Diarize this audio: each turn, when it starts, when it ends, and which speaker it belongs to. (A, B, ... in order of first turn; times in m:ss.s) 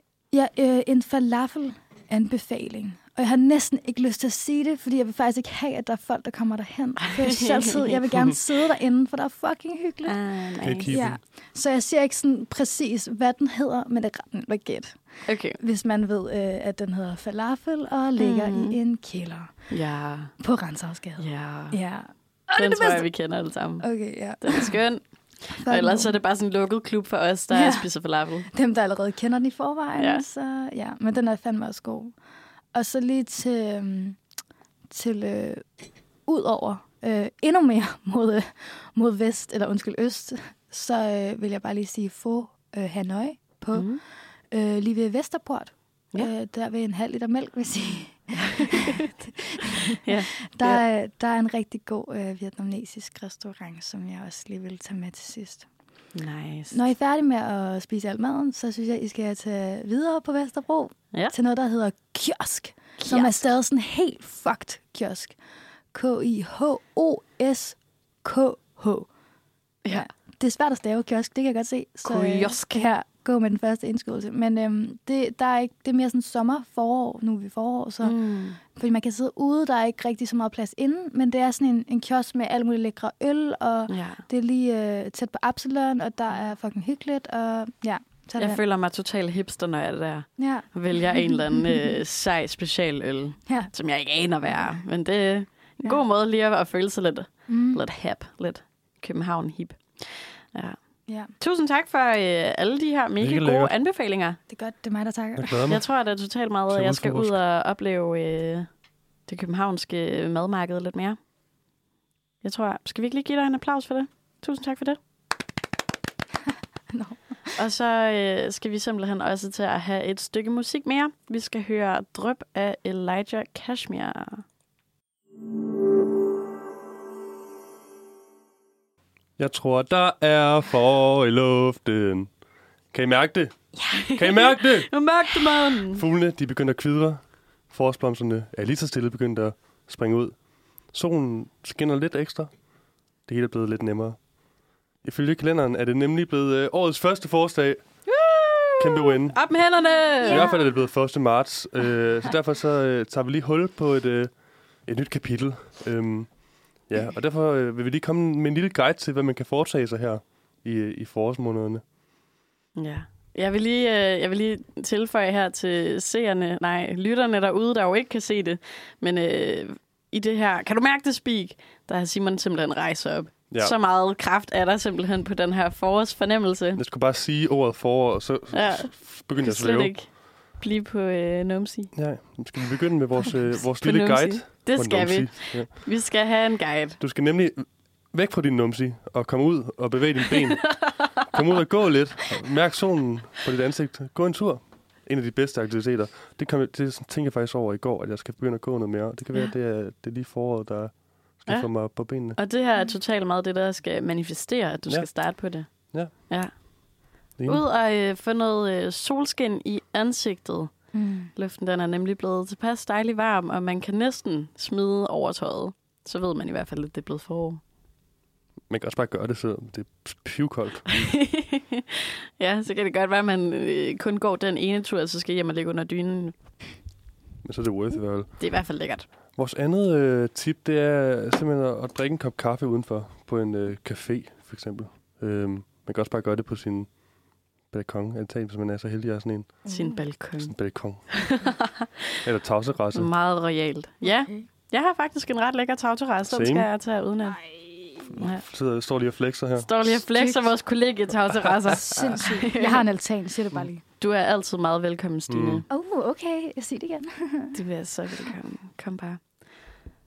0:00.3-0:10.3 A
0:07.1-0:08.1 B
0:10.0-0:11.0 B
0:10.6-0:11.2 C
0:10.9-0:19.8 A
0:15.2-0:15.6 B
0:18.2-0:18.8 B
0:19.7-0:20.4 B
0:20.4-0:23.1 A
0:21.2-0:21.8 B
0:22.5-0:28.5 B
0:23.8-0:24.8 A
0:25.5-0:26.1 A
0:27.5-0:27.9 A
0:28.5-0:32.2 A
0:30.0-0:30.2 B
0:32.7-0:34.2 A
0:34.9-0:35.7 A
0:36.3-0:55.7 A
0:43.7-0:44.0 B
0:50.0-0:50.8 B
0:56.2-0:56.8 B
0:56.7-1:05.4 A
1:03.0-1:03.6 B
1:05.9-1:09.1 A
1:09.9-1:28.6 A
1:12.0-1:12.8 B
1:18.0-1:18.6 B
1:23.9-1:24.2 B
1:28.4-1:40.8 B
1:30.4-1:32.0 A
1:37.5-1:37.8 A
1:41.1-1:41.3 A
1:41.4-1:44.4 B
1:43.2-1:43.7 C
1:44.5-1:45.6 A
1:45.4-1:45.8 C
1:45.7-1:48.7 B
1:46.7-1:47.4 C
1:49.3-1:51.2 B
1:52.4-1:55.0 B
1:56.9-1:57.5 A
1:57.6-2:04.4 B
2:09.4-2:12.3 C
2:12.9-2:20.4 C
2:13.8-2:16.0 B
2:20.9-2:22.5 C
2:23.3-2:24.2 C
2:25.0-2:28.0 C
2:28.1-2:30.5 B
2:28.8-2:29.5 C
2:30.2-2:30.6 A
2:30.2-2:41.8 C
2:42.8-2:56.8 B
2:53.5-2:53.8 C
2:56.8-3:00.0 C
2:58.5-3:01.9 B
3:01.9-3:05.8 C
3:03.5-3:07.0 B
3:07.0-3:22.4 C
3:10.7-3:11.1 B
3:21.5-3:37.6 B
3:24.9-3:26.1 C
3:27.4-3:27.6 C
3:30.9-3:31.3 A
3:38.7-3:41.1 C
3:40.9-3:46.4 B
3:47.4-3:57.0 C
3:48.4-3:49.1 B
3:57.7-3:59.7 C
3:59.6-4:00.0 A
3:59.7-4:02.2 B
4:00.4-4:01.4 C
4:02.2-4:03.1 C
4:02.9-4:07.5 B
4:04.0-4:04.5 A
4:06.3-4:06.7 C
4:07.3-4:08.1 A
4:08.2-4:09.8 C
4:08.2-4:08.5 B
4:09.6-4:12.8 B
4:10.1-4:10.5 A
4:11.7-4:13.8 A
4:14.0-4:15.7 B
4:15.3-4:15.6 C
4:15.7-4:17.6 A
4:17.5-4:19.5 B